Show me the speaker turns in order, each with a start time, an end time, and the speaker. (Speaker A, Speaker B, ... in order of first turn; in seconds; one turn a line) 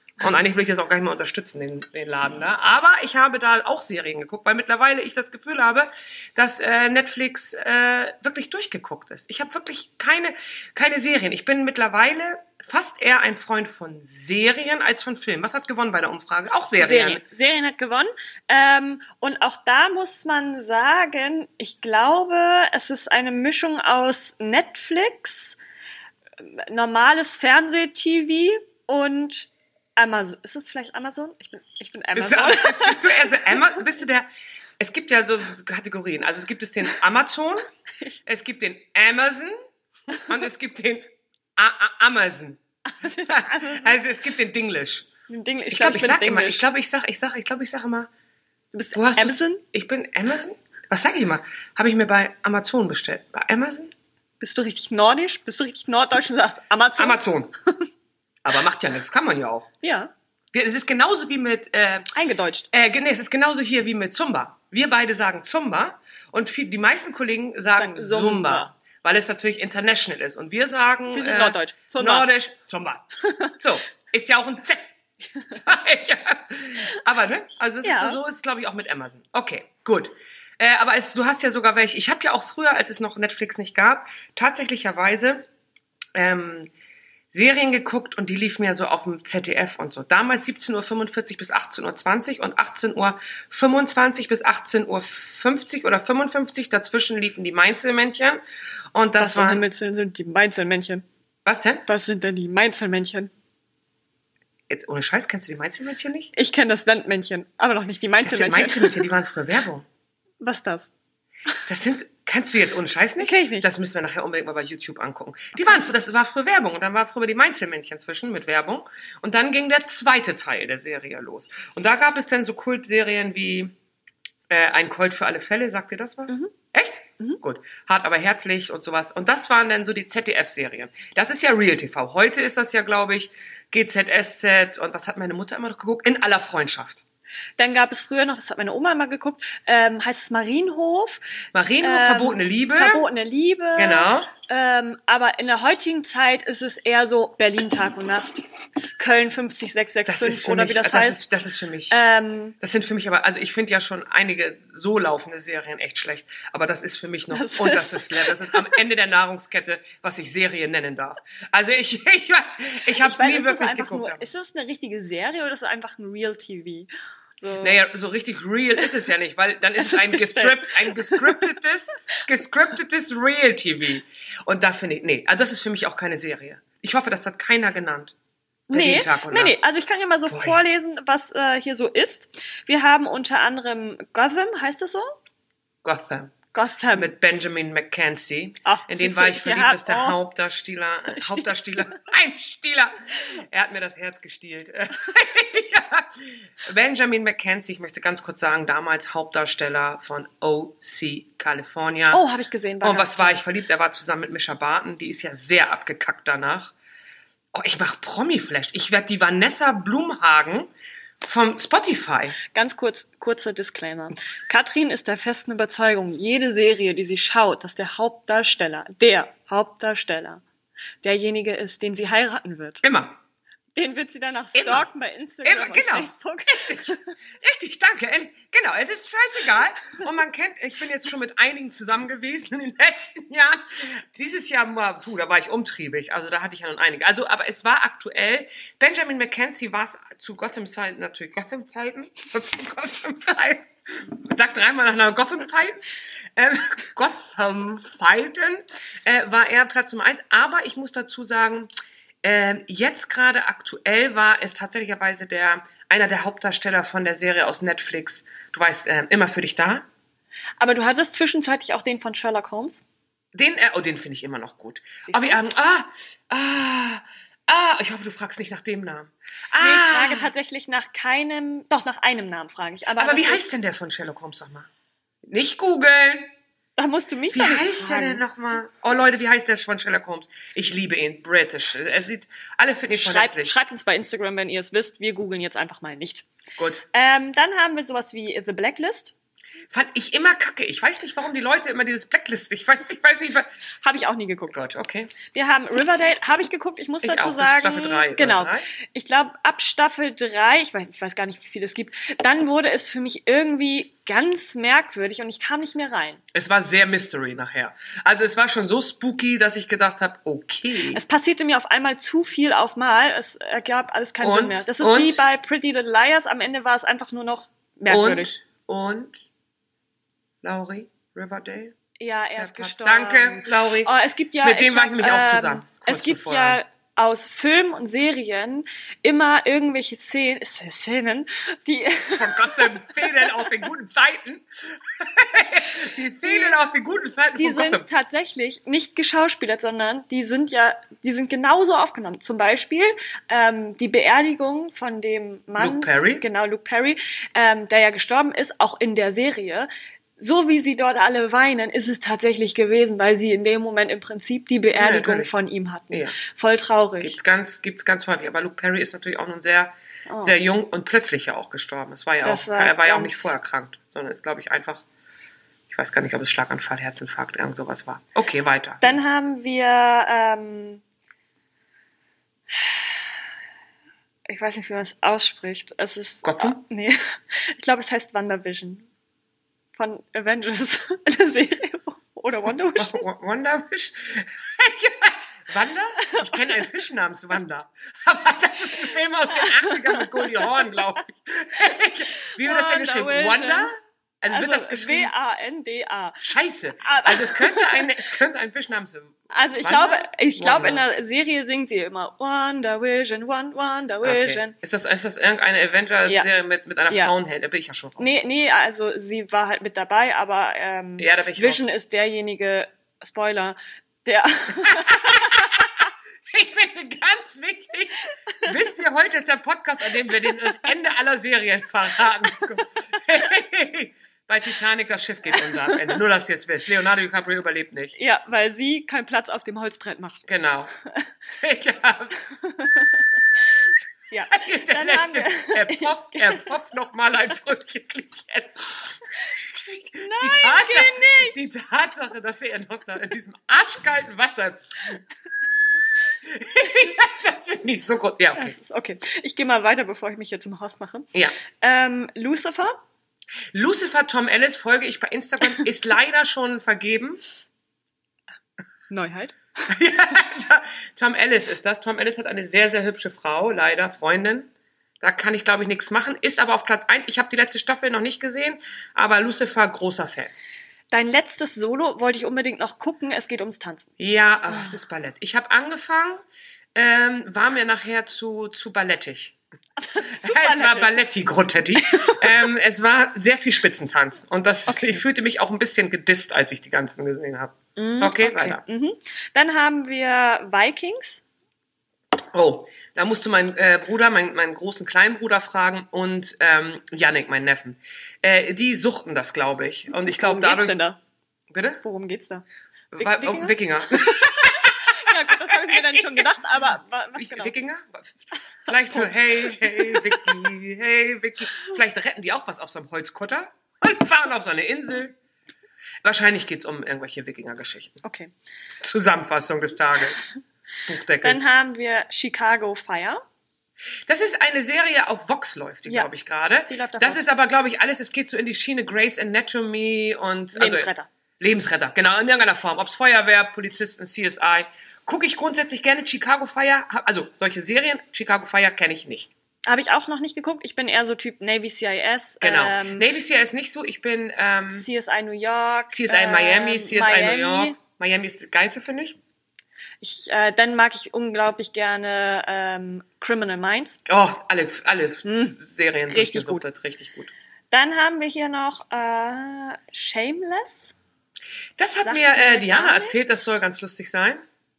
Speaker A: 0.2-17.2
Speaker B: 16.8-25.6
Speaker B: 26.4-33.8
Speaker A: 32.1-34.3
Speaker A: 34.8-37.6
Speaker A: 38.2-39.5
Speaker A: 40.1-42.6
Speaker B: 42.9-44.0
Speaker A: 43.1-45.1
Speaker B: 45.3-46.6
Speaker A: 45.7-48.1
Speaker B: 48.7-49.6
Speaker A: 48.9-53.9
Speaker B: 54.4-57.2
Speaker A: 57.0-57.5
Speaker A: 58.4-59.7
Speaker B: 59.8-60.1
Speaker A: 60.5-62.0
Speaker B: 62.1-62.7
Speaker A: 62.7-73.0
Speaker B: 67.8-68.7
Speaker B: 71.1-72.3
Speaker B: 73.2-73.5
Speaker A: 73.5-75.0
Speaker A: 75.5-85.4
Speaker B: 77.8-78.2
Speaker A: 86.1-86.7
Speaker A: 87.3-98.4
Speaker A: 98.9-99.6
Speaker B: 99.2-101.0
Speaker A: 101.5-101.8
Speaker B: 101.9-103.3
Speaker A: 104.7-106.3
Speaker B: 106.3-109.0
Speaker A: 108.2-109.9
Speaker B: 110.4-110.9
Speaker A: 111.7-123.7
Speaker B: 113.2-113.7
Speaker B: 115.6-115.9
Speaker A: 124.5-137.0
Speaker B: 137.6-141.2
Speaker A: 141.5-143.0
Speaker B: 141.8-148.4
Speaker A: 143.8-144.3
Speaker B: 149.0-151.3
Speaker A: 150.1-152.0
Speaker B: 151.9-152.6
Speaker A: 152.6-164.3
Speaker B: 157.3-158.8
Speaker B: 162.9-167.8
Speaker A: 167.6-178.1
Speaker B: 169.8-171.4
Speaker B: 178.7-185.1
Speaker A: 178.7-179.5
Speaker A: 180.3-180.6
Speaker A: 185.8-186.3
Speaker B: 186.5-187.1
Speaker A: 186.9-202.2
Speaker B: 188.6-190.2
Speaker B: 191.1-191.5
Speaker B: 202.1-203.4
Speaker A: 202.8-206.7
Speaker A: 207.5-210.7
Speaker A: 211.2-212.4
Speaker B: 212.4-220.4
Speaker B: 221.0-222.8
Speaker A: 222.8-223.2
Speaker B: 223.7-227.1
Speaker A: 224.5-224.9
Speaker A: 225.4-251.7
Speaker A: 252.2-259.9
Speaker B: 260.6-262.8
Speaker A: 263.3-270.3
Speaker B: 265.1-265.4
Speaker B: 269.6-273.4
Speaker A: 273.0-274.7
Speaker A: 275.3-276.3
Speaker B: 276.8-278.2
Speaker A: 277.3-283.5
Speaker B: 282.9-286.3
Speaker A: 286.6-286.8
Speaker B: 286.9-289.1
Speaker A: 289.7-293.5
Speaker B: 293.8-294.6
Speaker A: 294.5-295.1
Speaker B: 295.3-306.2
Speaker A: 297.0-298.7
Speaker A: 306.3-311.0
Speaker B: 310.9-318.3
Speaker A: 314.2-315.2
Speaker A: 317.9-319.2
Speaker A: 320.4-321.7
Speaker B: 322.0-333.5
Speaker A: 322.4-326.6
Speaker A: 332.1-337.9
Speaker B: 336.2-336.5
Speaker B: 337.4-357.2
Speaker A: 345.6-346.2
Speaker A: 354.7-355.3
Speaker A: 355.9-356.2
Speaker A: 357.0-364.8
Speaker B: 360.1-360.3
Speaker B: 362.2-363.3
Speaker A: 365.7-369.0
Speaker B: 368.8-370.8
Speaker B: 372.5-372.9
Speaker B: 374.3-378.9
Speaker A: 376.2-376.6
Speaker B: 379.8-383.0
Speaker A: 382.8-395.1
Speaker B: 386.1-386.4
Speaker B: 389.3-390.7
Speaker B: 392.3-393.7
Speaker B: 394.3-396.2
Speaker A: 396.2-400.8
Speaker B: 396.8-397.9
Speaker B: 399.3-404.5
Speaker A: 404.0-408.1
Speaker B: 408.0-415.6
Speaker A: 411.0-411.6
Speaker A: 414.6-415.8
Speaker A: 416.3-427.9
Speaker B: 427.9-430.2
Speaker A: 430.3-430.7
Speaker A: 431.3-432.2
Speaker B: 432.3-436.5
Speaker A: 434.3-438.7
Speaker A: 439.5-445.0
Speaker B: 440.0-441.4
Speaker A: 446.2-448.6
Speaker B: 448.4-452.8
Speaker A: 451.1-451.4
Speaker A: 453.5-457.2
Speaker B: 458.9-459.4
Speaker A: 459.7-464.5
Speaker A: 465.0-470.3
Speaker B: 470.9-473.9
Speaker A: 474.0-476.2
Speaker A: 476.8-479.4
Speaker B: 479.8-481.0
Speaker A: 480.0-488.6
Speaker B: 481.8-482.3
Speaker B: 484.7-485.0
Speaker B: 487.8-491.2
Speaker A: 492.3-500.8
Speaker B: 500.1-501.0
Speaker A: 501.5-501.8
Speaker B: 501.8-502.4
Speaker A: 502.9-506.3
Speaker B: 503.0-507.5
Speaker A: 507.1-515.1
Speaker B: 508.7-510.3
Speaker A: 516.0-518.0
Speaker B: 518.0-518.3
Speaker A: 518.8-520.2
Speaker A: 520.8-521.4
Speaker B: 521.2-523.2
Speaker A: 524.1-539.3
Speaker B: 526.7-527.2
Speaker B: 530.5-531.1
Speaker B: 539.6-543.0
Speaker A: 542.4-544.9
Speaker B: 544.7-547.8
Speaker A: 545.9-549.2
Speaker B: 550.0-554.0
Speaker A: 554.0-557.3
Speaker B: 555.2-555.6
Speaker B: 556.1-556.6
Speaker B: 557.7-560.9
Speaker A: 561.8-564.4
Speaker B: 562.0-563.6